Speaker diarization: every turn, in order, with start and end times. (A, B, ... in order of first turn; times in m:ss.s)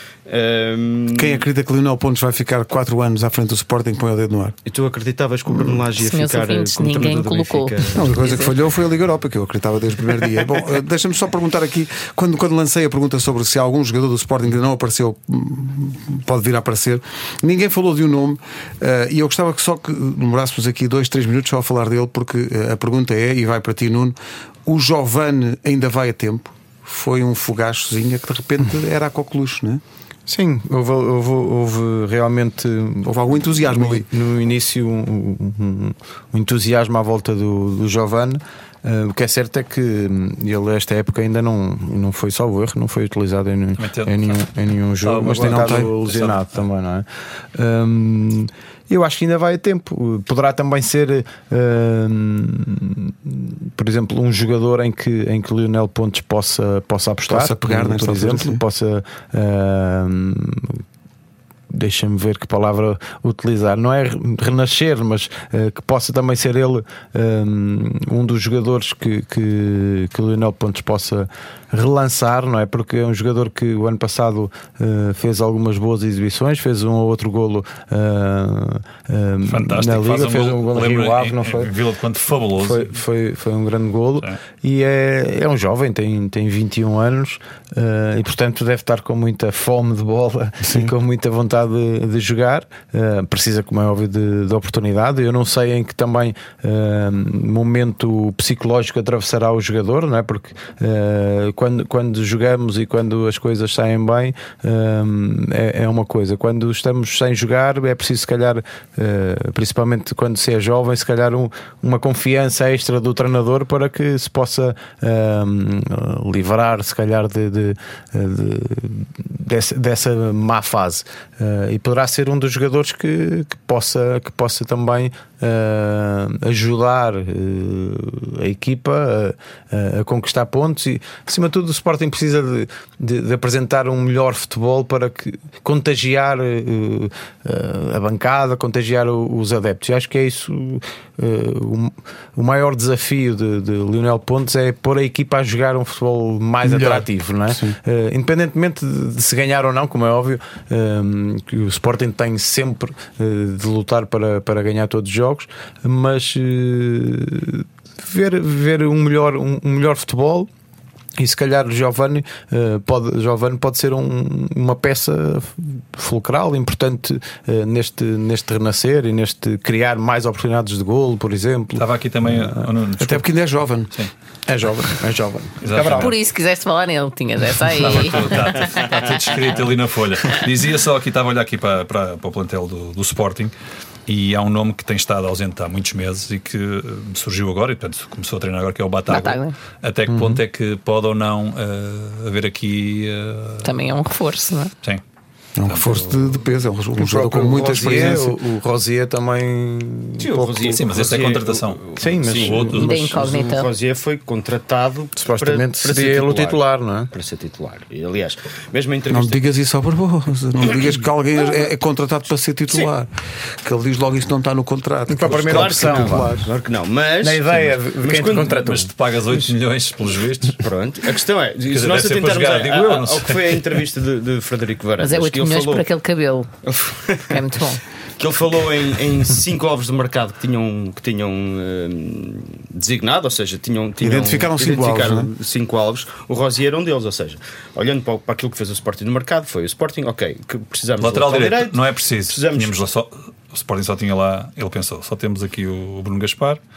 0:00.3-0:01.4 A
0:01.1-0:04.6 B
0:04.7-0:08.1 A
0:06.0-0:08.5 C
0:08.0-0:29.8 B
0:30.3-1:00.8 D
0:33.0-0:34.1 B
0:43.8-0:44.5 E
0:45.0-0:46.6 E
0:45.4-0:45.9 B
0:57.3-0:58.6 B
1:01.7-1:21.7 D
1:19.5-1:22.9 E
1:22.6-2:40.5 D
1:30.6-1:30.9 B
2:26.6-2:27.8 B
2:41.2-2:52.7 D
2:51.8-2:53.2 E
2:53.0-2:53.9 B
2:54.5-2:56.1 D
2:55.6-2:56.1 E
2:55.9-2:59.2 C
2:57.6-3:03.5 E
3:04.1-3:13.7 E
3:09.1-3:09.6 C
3:10.1-3:10.4 D
3:13.6-3:14.7 C
3:15.6-3:18.4 B
3:17.0-3:20.8 D
3:20.2-3:26.6 A
3:20.6-3:23.1 E
3:22.0-3:23.2 D
3:22.7-3:23.7 C
3:25.2-3:27.1 D
3:27.1-3:29.5 A
3:29.1-3:33.1 B
3:33.6-3:36.5 B
3:35.1-3:36.5 D
3:35.4-3:38.6 A
3:37.2-3:38.9 D
3:38.4-3:40.6 E
3:40.6-3:45.9 A
3:41.7-3:43.8 E
3:45.0-3:46.5 C
3:46.6-3:47.5 A
3:47.3-3:47.8 C
3:48.2-4:02.8 A
3:54.0-3:55.3 B
4:01.0-4:06.6 E